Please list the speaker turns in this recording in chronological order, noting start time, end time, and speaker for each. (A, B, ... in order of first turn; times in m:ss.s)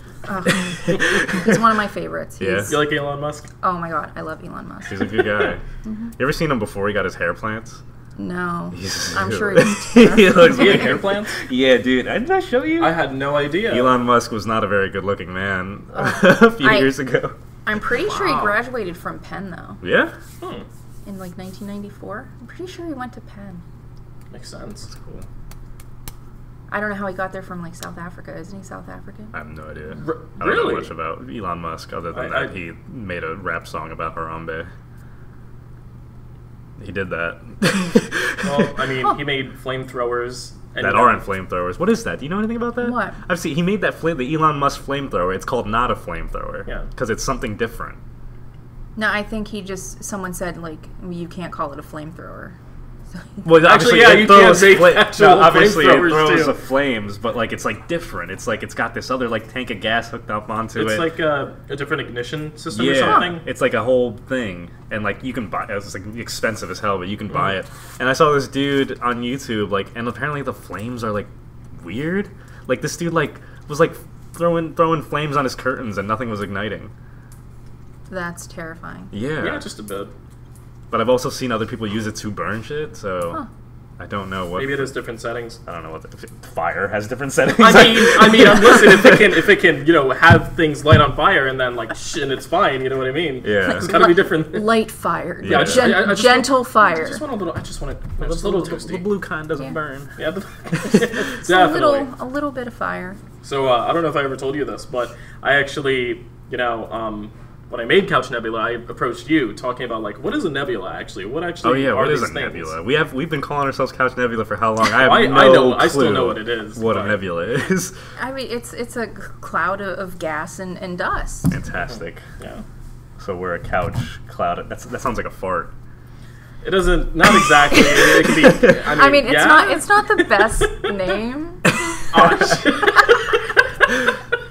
0:00.3-0:02.8 A
0:00.5-0:01.6 B
0:02.4-0:02.8 B
0:02.7-0:03.5 C
0:03.6-0:05.2 A
0:04.9-0:05.6 B
0:05.8-0:06.1 A
0:06.2-0:07.8 B
0:08.2-0:11.1 A
0:08.7-0:13.1 B
0:10.4-0:11.4 C
0:12.8-0:14.0 C
0:13.7-0:17.4 B
0:15.9-0:17.0 A
0:17.6-0:19.8 A
0:18.1-0:18.6 C
0:19.8-0:20.2 B
0:20.4-0:20.7 C
0:21.1-0:23.6 A
0:24.3-0:25.2 C
0:26.7-0:29.3 A
0:29.3-0:34.7 B
0:30.0-0:30.9 C
0:32.1-0:32.5 C
0:36.8-0:38.8 B
0:38.4-0:41.2 C
0:40.8-0:48.0 B
0:42.8-0:43.2 A
0:49.0-0:52.6 A
0:53.2-0:53.4 A
0:53.4-1:01.1 B
0:53.5-0:56.6 C
1:00.8-1:03.4 C
1:02.7-1:16.9 B
1:03.1-1:03.4 A
1:18.1-1:19.1 A
1:19.1-1:19.7 B
1:19.4-1:20.1 C
1:20.9-1:23.4 B
1:24.0-1:24.9 B
1:24.5-1:25.6 C
1:25.6-1:29.4 B
1:27.6-1:34.8 C
1:33.4-1:34.0 B
1:33.6-1:37.2 A
1:35.4-1:36.1 B
1:35.4-1:39.1 C
1:38.2-1:41.2 B
1:40.2-1:42.1 C
1:41.4-1:43.2 A
1:43.4-1:52.8 C
1:51.6-1:58.0 B
1:54.8-1:57.2 C
1:58.2-2:01.5 A
2:01.5-2:02.2 B
2:03.2-2:05.7 B
2:06.6-2:11.1 C
2:08.3-2:08.8 B
2:08.8-2:12.1 A
2:11.9-2:12.4 B
2:12.1-2:13.9 C